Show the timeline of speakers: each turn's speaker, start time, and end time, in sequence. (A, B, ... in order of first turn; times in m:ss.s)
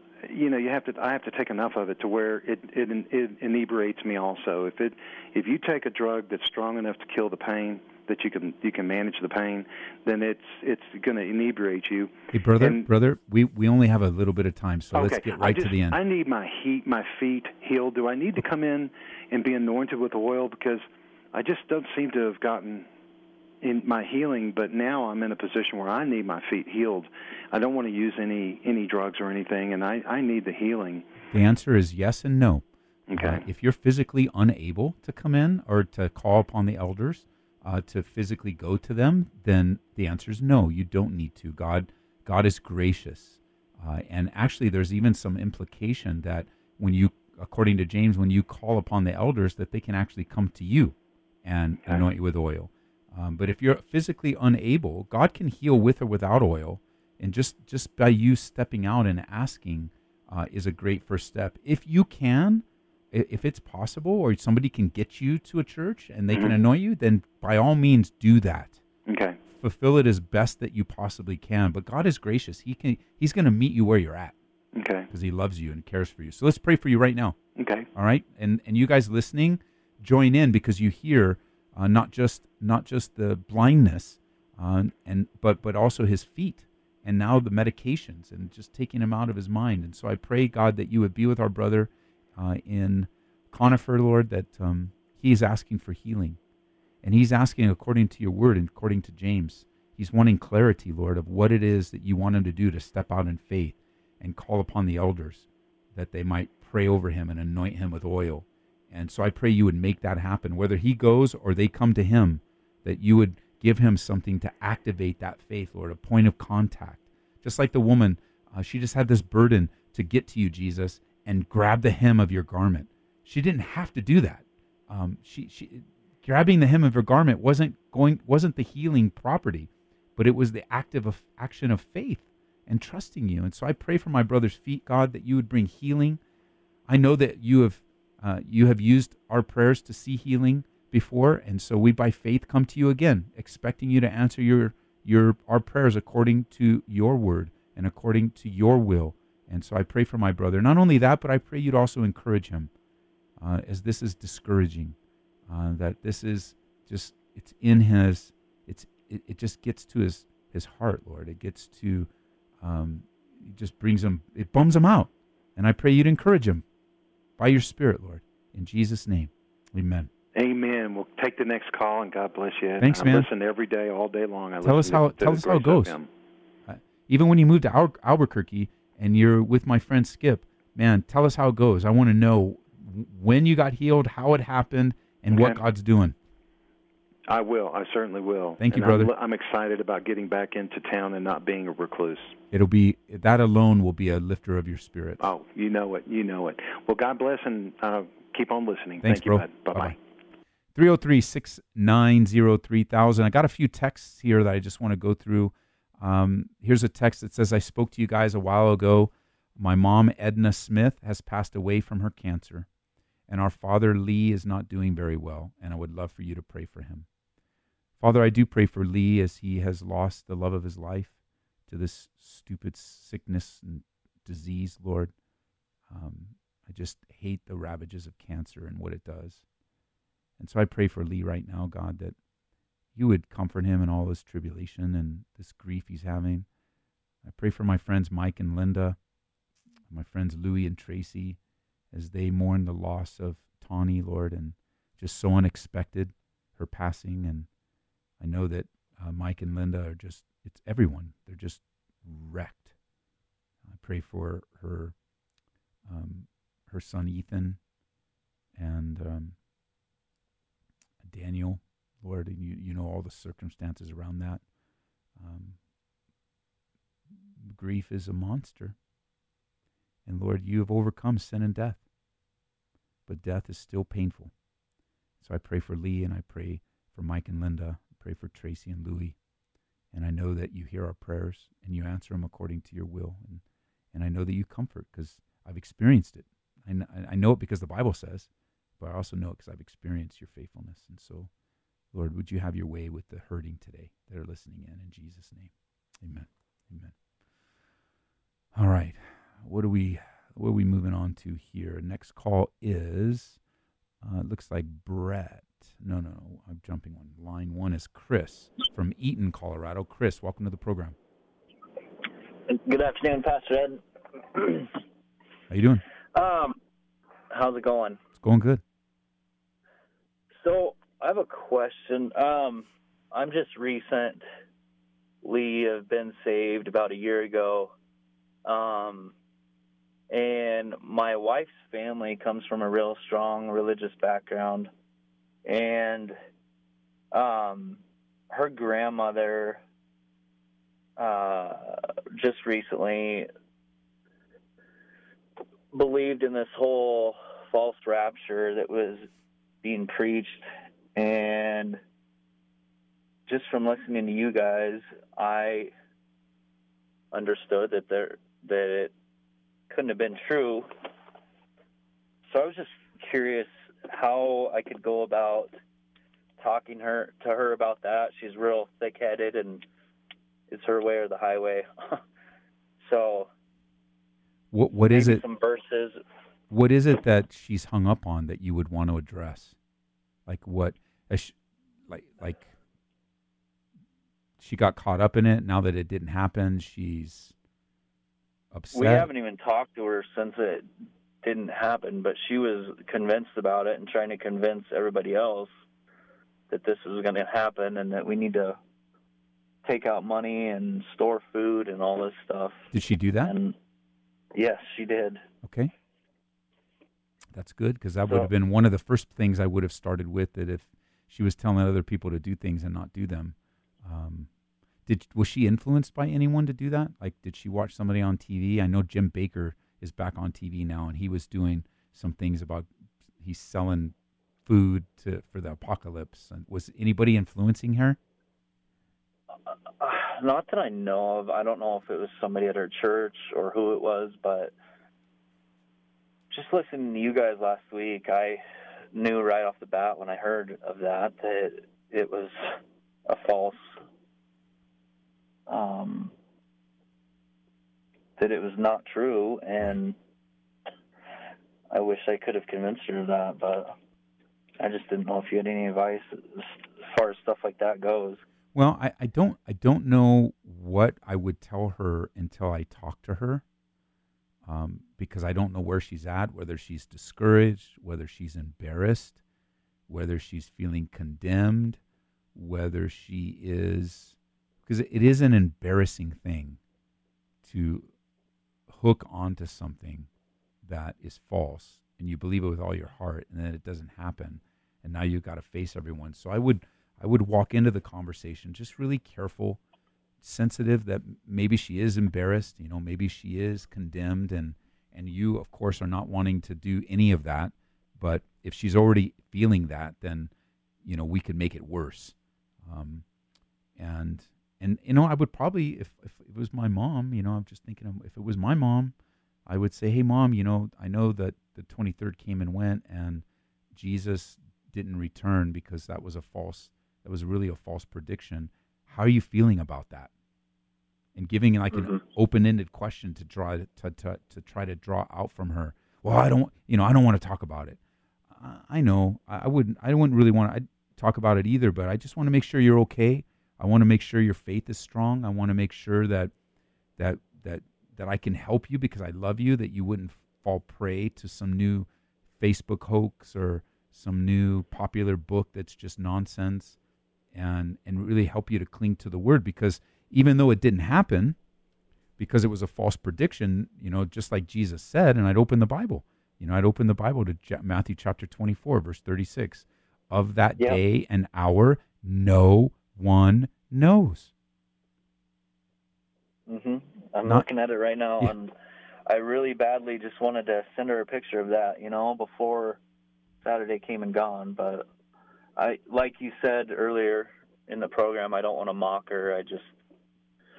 0:00.2-0:12.8 A
0:12.3-0:16.0 B
0:14.9-0:22.9 A
0:23.6-0:31.0 A
0:31.3-1:08.8 B
0:33.1-0:33.4 A
1:09.1-1:09.4 A
1:09.6-1:14.3 B
1:14.7-1:15.1 A
1:15.1-1:17.4 B
1:17.6-1:17.9 A
1:17.9-1:36.4 B
1:37.0-2:16.2 B
2:16.9-2:32.7 B
2:33.4-2:35.0 B
2:35.5-2:42.1 B
2:42.6-2:46.6 B
2:47.4-2:50.1 B
2:50.4-2:56.1 A
2:52.8-2:53.3 B
2:54.6-2:56.0 B
2:56.7-3:06.1 B
3:05.3-3:05.6 A
3:07.3-3:12.4 A
3:08.6-3:09.1 B
3:12.5-3:15.2 B
3:15.2-3:20.0 A
3:19.0-3:20.0 B
3:20.7-3:32.7 B
3:33.3-3:37.1 B
3:38.0-3:41.1 B
3:41.7-3:45.1 B
3:45.9-3:49.4 B
3:50.4-3:52.2 B
3:52.9-3:56.4 B
3:57.2-3:59.0 B
3:59.9-4:01.4 B
4:01.9-4:07.5 B
4:08.2-4:12.7 B
4:13.7-4:14.9 B
4:15.8-4:17.6 B
4:18.5-4:19.3 B
4:21.0-4:24.4 B
4:25.2-4:25.6 B
4:27.4-4:28.7 B
4:30.0-4:31.8 B
4:33.1-4:34.3 B
4:35.2-4:39.1 B
4:39.9-4:43.4 B
4:43.9-4:48.3 B
4:48.8-4:51.3 B
4:51.9-4:56.9 B
4:58.5-5:03.4 B
5:04.0-5:11.0 B
5:12.5-5:14.8 C
5:15.5-5:15.8 B
5:16.1-5:16.6 C
5:17.3-5:18.0 C
5:18.2-5:18.6 B
5:20.4-5:24.2 C
5:25.2-5:27.7 C
5:28.4-5:29.1 C
5:30.1-5:34.7 C
5:35.4-5:36.1 C
5:37.1-5:39.6 C
5:41.0-5:43.3 C
5:45.7-5:49.1 C
5:49.6-5:51.8 C
5:53.3-5:55.7 C
5:57.1-5:58.9 C
5:59.7-6:00.7 C
6:02.3-6:05.5 C
6:06.4-6:09.6 C
6:10.5-6:12.0 C
6:12.8-6:13.3 C
6:14.5-6:15.2 B
6:14.9-6:16.0 C
6:16.5-6:19.6 B
6:20.2-6:21.3 B
6:21.9-6:22.5 B
6:24.4-6:27.3 B
6:28.5-6:29.1 B
6:28.7-6:30.7 C
6:31.2-6:35.5 C
6:36.5-6:38.6 C
6:39.6-6:42.7 C
6:42.7-6:43.3 B
6:43.2-6:43.5 C
6:44.3-6:45.2 C
6:45.4-6:45.7 B
6:47.3-6:54.3 B
6:54.8-7:03.9 B
7:04.4-7:08.0 B
7:09.8-7:14.5 C
7:16.3-7:18.4 C
7:18.9-7:22.6 C
7:23.1-7:23.6 C
7:25.5-7:26.1 C
7:28.2-7:30.0 C
7:31.7-7:33.7 C
7:34.6-7:38.2 C
7:38.5-7:43.4 B
7:44.4-7:49.2 B
7:49.9-7:51.8 B
7:52.3-7:56.6 B
7:57.4-7:57.9 B
7:58.7-8:00.1 B
8:00.6-8:09.6 B
8:10.2-8:20.3 B
8:20.8-8:23.0 B
8:23.8-8:28.9 B
8:29.5-8:40.1 B
8:41.1-8:47.8 B
8:48.3-8:56.3 B
8:57.0-9:01.9 B
9:02.4-9:06.8 B
9:07.3-9:11.4 B
9:12.2-9:24.3 B
9:26.5-9:28.5 C
9:29.1-9:32.8 C
9:33.4-9:34.8 C
9:35.6-9:39.7 C